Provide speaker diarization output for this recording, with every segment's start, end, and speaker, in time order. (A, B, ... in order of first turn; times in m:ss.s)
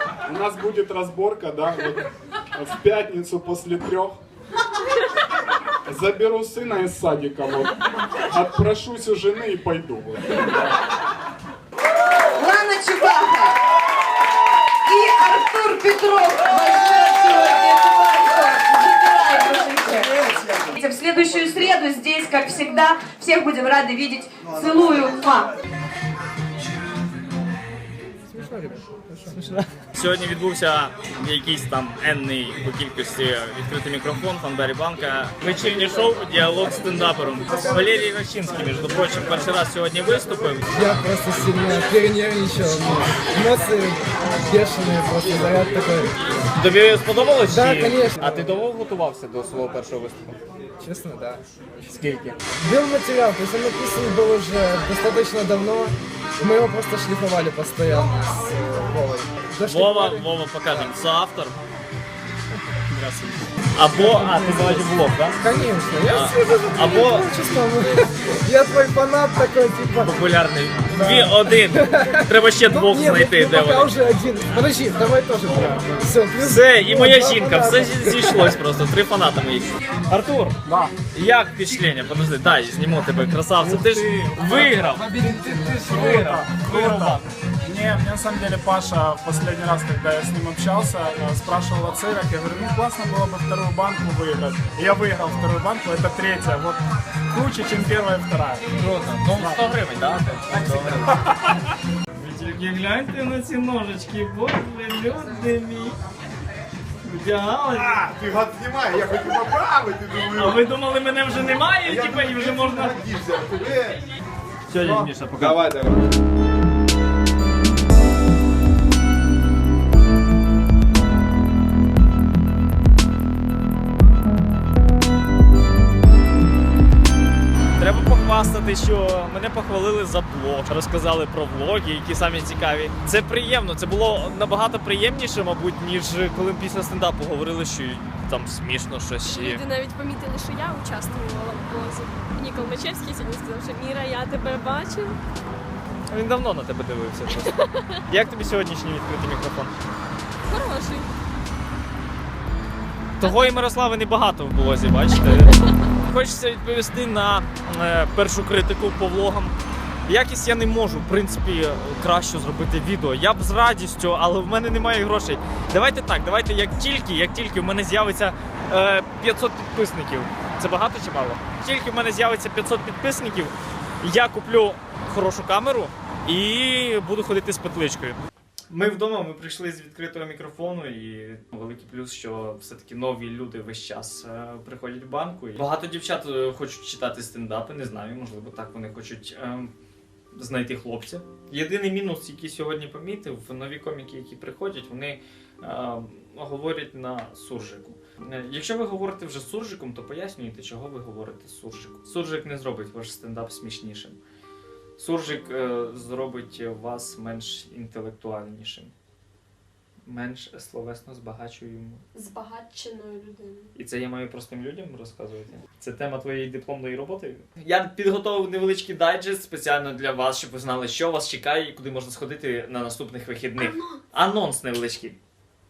0:00.2-0:04.2 A
0:05.8-0:07.7 A
0:08.3-0:10.8 A
0:12.4-0:13.5 B
0:14.9-0:25.5 B
0:28.3-0:29.6 C
0:29.9-0:40.7 D
0:40.7-0:46.4 C
0:46.5-0:50.4 D
0:47.5-0:48.5 C
0:50.8-0:51.4 C
0:51.9-0:52.4 D
0:52.6-1:00.2 C
0:59.6-1:01.6 D
1:02.9-1:05.4 D
1:04.0-1:10.1 C
1:06.0-1:07.3 D
1:10.0-1:14.0 D
1:10.9-1:18.2 C
1:16.4-1:20.6 D
1:20.6-1:20.9 A
1:21.1-1:25.1 D
1:23.6-1:24.4 A
1:24.5-1:25.8 C
1:25.2-1:38.6 A
1:25.8-1:27.3 D
1:38.7-1:41.4 D
1:39.3-1:39.7 A
1:42.2-1:46.0 D
1:47.0-1:48.0 D
1:48.0-1:50.6 E
1:50.2-1:53.0 D
1:51.8-1:54.0 E
1:54.7-1:55.6 D
1:54.8-1:55.9 E
2:07.8-2:19.6 D
2:19.2-2:25.2 F
2:26.1-2:29.7 D
2:30.5-2:31.1 F
2:33.2-2:39.6 D
2:40.1-3:09.7 D
3:10.3-3:24.2 D
3:25.0-3:28.9 D
3:30.0-3:32.0 D
3:32.1-3:33.6 F
3:33.7-3:45.2 D